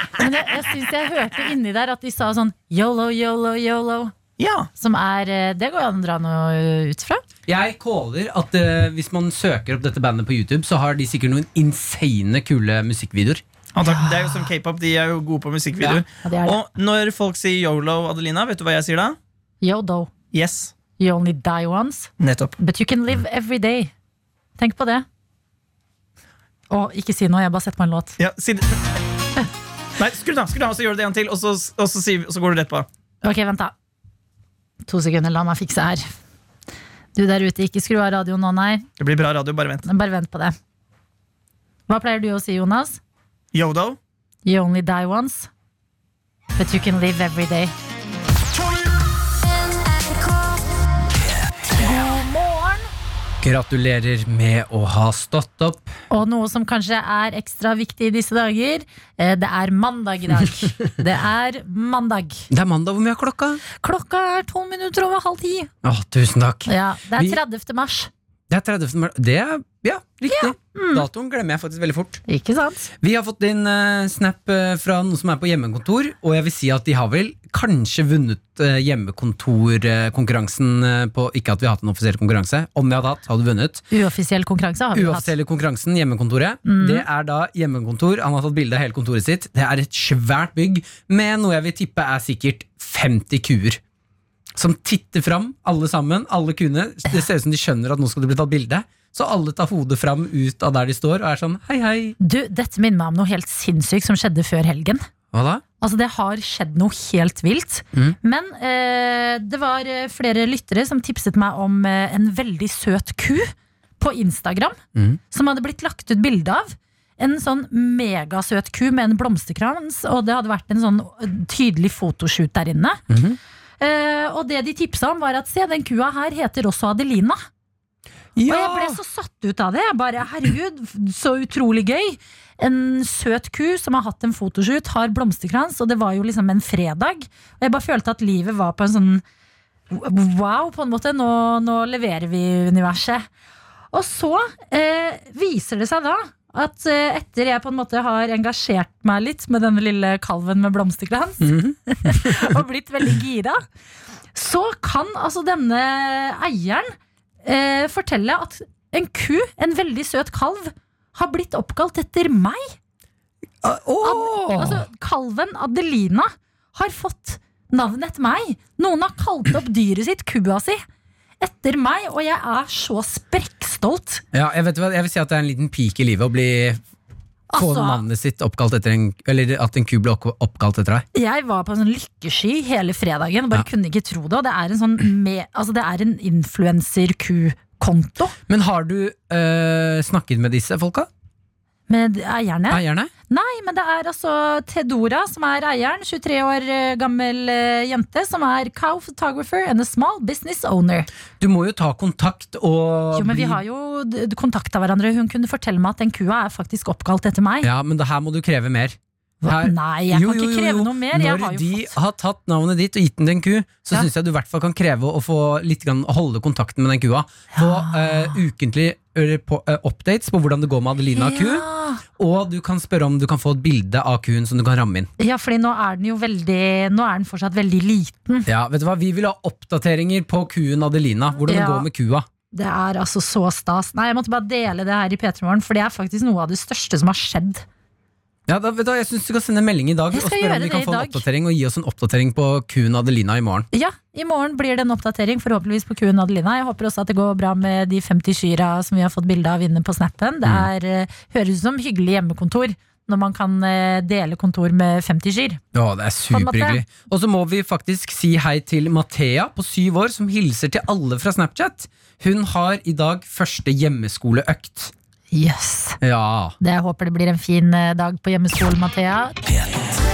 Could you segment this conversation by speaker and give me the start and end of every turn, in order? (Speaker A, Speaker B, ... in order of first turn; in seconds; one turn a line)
Speaker A: 0.2-4.1
Speaker B: 4.4-4.7
Speaker A: 4.8-7.2
Speaker C: 7.5-13.4
Speaker B: 13.8-19.1
Speaker A: 13.8-14.5
Speaker A: 15.8-16.6
Speaker A: 19.6-20.1
Speaker B: 20.3-20.7
Speaker A: 21.0-23.9
Speaker B: 22.2-22.5
Speaker A: 24.6-25.1
Speaker A: 26.7-28.2
Speaker B: 28.2-28.6
Speaker B: 30.0-32.9
Speaker A: 33.2-33.7
Speaker A: 34.9-36.1
Speaker A: 37.1-38.9
Speaker B: 39.0-39.9
Speaker A: 39.8-40.5
Speaker A: 41.9-43.0
Speaker B: 43.5-44.0
Speaker A: 44.4-45.5
Speaker A: 46.6-47.7
Speaker A: 51.7-52.9
Speaker C: 53.4-55.9
Speaker A: 56.1-62.5
Speaker C: 62.5-63.6
Speaker A: 63.8-65.7
Speaker C: 65.8-67.4
Speaker A: 66.7-68.1
Speaker C: 68.5-72.2
Speaker A: 70.3-71.0
Speaker A: 72.3-72.9
Speaker C: 73.0-83.9
Speaker A: 83.9-85.3
Speaker C: 84.9-93.8
Speaker A: 86.6-87.0
Speaker C: 94.5-102.2
Speaker A: 102.2-105.0
Speaker C: 105.3-105.6
Speaker A: 105.8-114.8
Speaker C: 114.9-115.2
Speaker A: 115.3-123.0
Speaker C: 123.1-123.4
Speaker A: 123.8-127.4
Speaker C: 128.3-129.0
Speaker A: 128.5-139.2
Speaker A: 139.9-143.2
Speaker A: 143.9-153.6
Speaker C: 151.4-152.6
Speaker A: 154.3-156.9
Speaker A: 157.4-162.7
Speaker C: 163.6-164.8
Speaker A: 164.0-170.8
Speaker A: 171.4-174.2
Speaker C: 174.3-176.8
Speaker A: 177.5-178.0
Speaker C: 177.6-181.1
Speaker A: 181.1-188.3
Speaker C: 188.5-191.1
Speaker A: 191.9-201.1
Speaker C: 192.7-193.1
Speaker C: 201.4-203.6
Speaker A: 203.1-207.7
Speaker C: 207.6-221.7
Speaker A: 209.4-211.9
Speaker A: 217.5-218.4
Speaker A: 221.1-222.0
Speaker C: 222.2-225.1
Speaker A: 225.2-228.5
Speaker C: 228.4-232.3
Speaker A: 231.4-231.9
Speaker A: 232.5-237.6
Speaker C: 238.5-243.7
Speaker A: 240.1-241.2
Speaker A: 243.7-255.6
Speaker C: 250.4-250.7
Speaker C: 255.7-264.9
Speaker A: 256.3-256.8
Speaker A: 265.3-266.0
Speaker C: 266.0-266.6
Speaker A: 266.6-269.3